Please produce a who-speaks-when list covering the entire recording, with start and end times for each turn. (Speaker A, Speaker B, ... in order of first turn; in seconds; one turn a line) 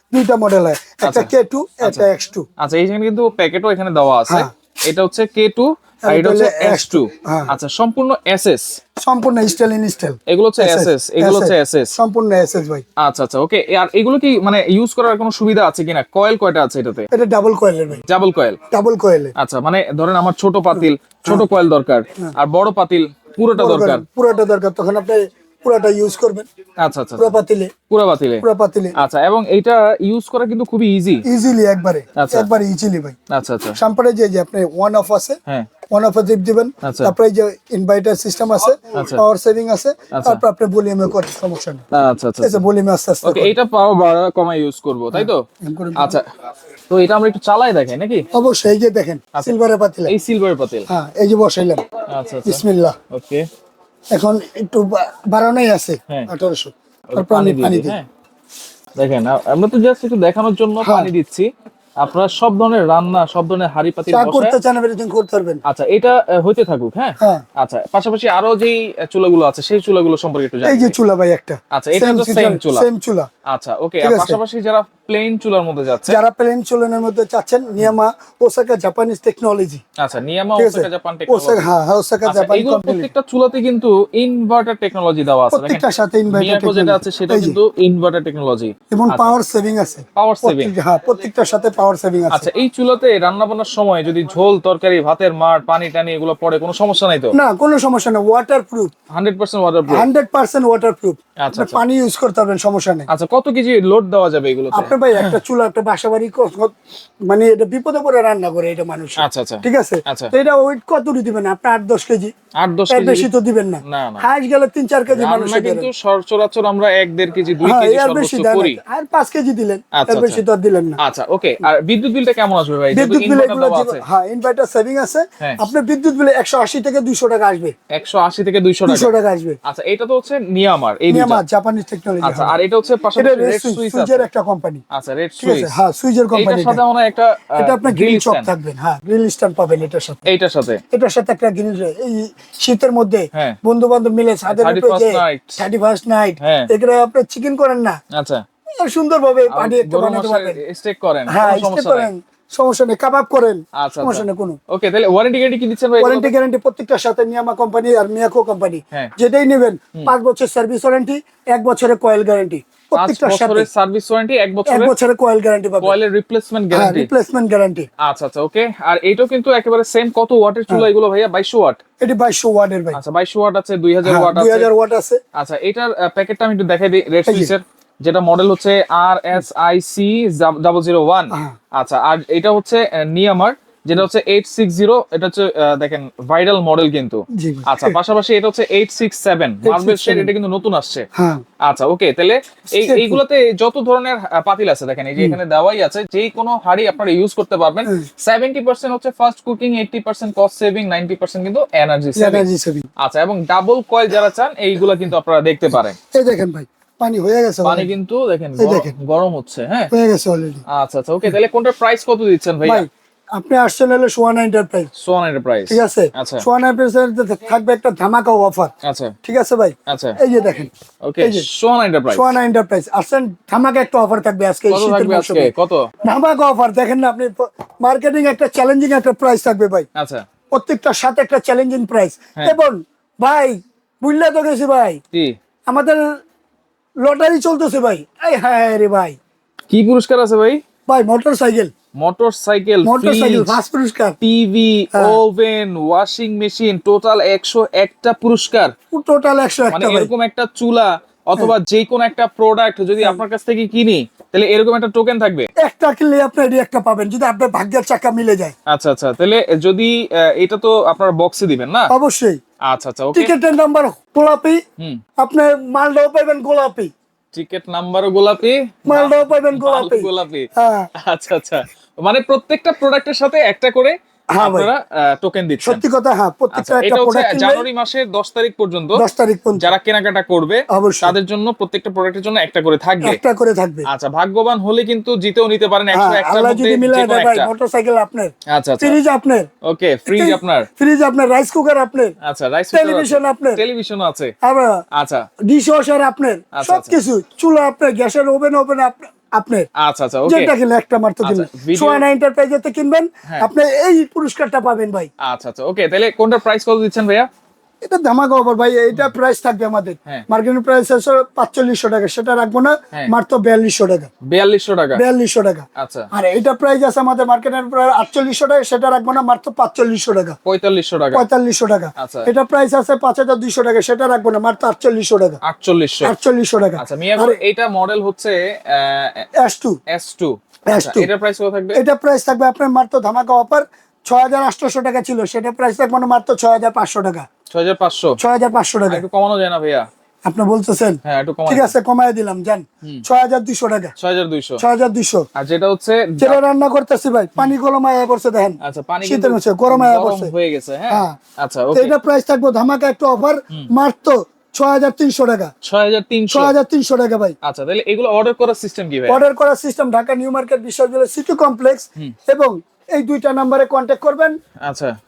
Speaker A: 0.1-2.4
Speaker B: 1.0-1.3
Speaker B: 1.8-2.1
Speaker B: 2.6-8.8
Speaker A: 6.0-7.5
Speaker A: 9.0-12.8
Speaker B: 10.3-11.9
Speaker B: 13.0-17.1
Speaker A: 17.1-18.0
Speaker B: 18.0-18.6
Speaker A: 18.7-19.3
Speaker B: 19.4-24.0
Speaker A: 20.7-21.5
Speaker A: 23.6-26.4
Speaker B: 26.8-27.4
Speaker A: 27.2-27.7
Speaker B: 27.9-28.4
Speaker A: 28.4-28.9
Speaker B: 28.9-31.2
Speaker A: 31.3-33.1
Speaker B: 32.1-32.5
Speaker B: 33.3-33.8
Speaker A: 33.8-35.4
Speaker A: 35.9-41.8
Speaker B: 36.8-37.1
Speaker B: 38.9-39.2
Speaker B: 40.1-40.4
Speaker B: 41.9-42.6
Speaker A: 42.4-43.5
Speaker B: 43.2-45.4
Speaker A: 45.1-46.2
Speaker B: 46.0-46.3
Speaker B: 46.9-48.2
Speaker A: 48.3-50.1
Speaker B: 50.1-50.9
Speaker A: 50.9-51.8
Speaker B: 52.1-53.4
Speaker A: 52.4-53.0
Speaker A: 54.1-58.0
Speaker B: 57.1-58.0
Speaker B: 59.0-61.5
Speaker A: 60.8-61.1
Speaker B: 62.0-64.5
Speaker A: 64.1-65.6
Speaker B: 65.7-70.9
Speaker A: 70.6-73.3
Speaker B: 71.7-72.9
Speaker B: 73.5-76.2
Speaker A: 74.0-74.4
Speaker A: 76.1-79.8
Speaker B: 80.0-81.6
Speaker A: 80.5-83.1
Speaker B: 82.3-89.3
Speaker A: 85.5-87.6
Speaker A: 88.9-92.5
Speaker B: 90.2-90.7
Speaker B: 92.3-97.3
Speaker A: 97.3-98.9
Speaker B: 99.1-100.0
Speaker A: 99.9-103.1
Speaker B: 101.4-101.8
Speaker B: 103.1-105.4
Speaker A: 104.7-106.7
Speaker A: 107.3-112.3
Speaker B: 109.2-110.3
Speaker B: 112.6-113.3
Speaker A: 112.9-115.9
Speaker B: 113.8-114.2
Speaker B: 115.1-118.8
Speaker A: 117.6-121.0
Speaker B: 119.9-120.4
Speaker B: 121.0-124.0
Speaker A: 122.9-127.7
Speaker B: 125.4-125.7
Speaker B: 127.9-129.1
Speaker A: 128.9-129.6
Speaker B: 129.6-131.4
Speaker A: 131.1-132.6
Speaker B: 132.2-134.2
Speaker A: 133.2-134.8
Speaker B: 134.9-135.8
Speaker A: 135.4-136.8
Speaker B: 136.3-138.5
Speaker A: 137.6-140.2
Speaker B: 140.2-140.8
Speaker A: 140.9-148.0
Speaker B: 144.5-145.6
Speaker B: 146.4-146.7
Speaker B: 148.1-148.4
Speaker A: 148.8-150.6
Speaker B: 149.5-152.1
Speaker A: 151.3-154.6
Speaker B: 153.8-156.3
Speaker A: 156.0-163.7
Speaker B: 162.9-164.9
Speaker A: 164.7-165.9
Speaker B: 165.8-167.1
Speaker A: 166.7-167.9
Speaker B: 168.0-171.8
Speaker A: 172.0-173.0
Speaker B: 172.9-174.7
Speaker A: 174.0-175.2
Speaker B: 175.3-191.1
Speaker A: 177.3-177.5
Speaker A: 187.3-188.0
Speaker A: 189.6-190.3
Speaker A: 191.2-191.4
Speaker B: 191.6-202.4
Speaker A: 192.8-193.2
Speaker A: 202.2-202.9
Speaker B: 203.0-206.0
Speaker A: 206.1-207.9
Speaker B: 207.6-209.9
Speaker A: 208.6-208.9
Speaker A: 209.9-210.6
Speaker B: 210.7-212.8
Speaker A: 212.6-214.9
Speaker B: 215.0-216.4
Speaker A: 215.7-218.7
Speaker B: 218.8-219.1
Speaker A: 219.2-221.4
Speaker B: 219.9-220.2
Speaker B: 221.0-222.4
Speaker A: 222.1-225.5
Speaker B: 224.7-225.9
Speaker A: 226.0-229.9
Speaker B: 229.9-230.2
Speaker A: 230.5-235.0
Speaker A: 235.7-236.0
Speaker A: 237.0-239.2
Speaker B: 239.7-240.6
Speaker A: 240.9-241.7
Speaker B: 242.0-243.6
Speaker A: 242.8-244.2
Speaker B: 244.2-248.7
Speaker A: 244.9-245.2
Speaker A: 248.9-250.1
Speaker B: 249.7-255.5
Speaker A: 255.6-258.5
Speaker B: 258.7-261.9
Speaker A: 261.9-262.4
Speaker B: 262.7-263.3
Speaker A: 263.1-264.6
Speaker A: 265.2-266.9
Speaker B: 267.3-275.8
Speaker A: 268.9-270.9
Speaker A: 274.3-274.7
Speaker A: 275.6-277.6
Speaker B: 276.5-279.0
Speaker A: 278.9-279.7
Speaker B: 279.6-283.2
Speaker A: 280.7-281.1
Speaker A: 283.0-283.9
Speaker B: 283.9-287.5
Speaker A: 285.9-289.5
Speaker B: 288.5-289.0
Speaker B: 289.6-290.7
Speaker A: 290.1-292.1
Speaker B: 292.2-294.3
Speaker A: 292.7-293.6
Speaker A: 294.4-294.8
Speaker B: 294.9-295.3
Speaker A: 295.5-299.7
Speaker B: 296.5-296.9
Speaker B: 299.8-300.5
Speaker A: 300.3-305.1
Speaker B: 301.2-302.0
Speaker B: 305.2-307.3
Speaker A: 307.8-314.1
Speaker B: 314.3-315.0
Speaker A: 314.9-320.4
Speaker B: 315.8-316.1
Speaker B: 320.4-321.2
Speaker A: 321.1-325.4
Speaker B: 322.0-322.3
Speaker B: 325.4-326.1
Speaker A: 326.0-327.4
Speaker B: 326.8-329.3
Speaker A: 329.4-329.8
Speaker B: 329.9-331.8
Speaker A: 330.7-331.1
Speaker A: 331.7-337.2
Speaker B: 337.5-338.2
Speaker A: 338.2-339.0
Speaker B: 338.9-339.9
Speaker A: 340.2-343.9
Speaker B: 341.0-341.7
Speaker B: 344.0-344.6
Speaker A: 344.6-345.2
Speaker B: 345.4-346.4
Speaker A: 346.2-350.3
Speaker B: 348.6-351.9
Speaker A: 350.9-351.2
Speaker A: 351.7-355.5
Speaker B: 355.6-356.5
Speaker A: 356.3-357.3
Speaker B: 357.4-359.2
Speaker A: 359.1-364.4
Speaker B: 364.6-364.9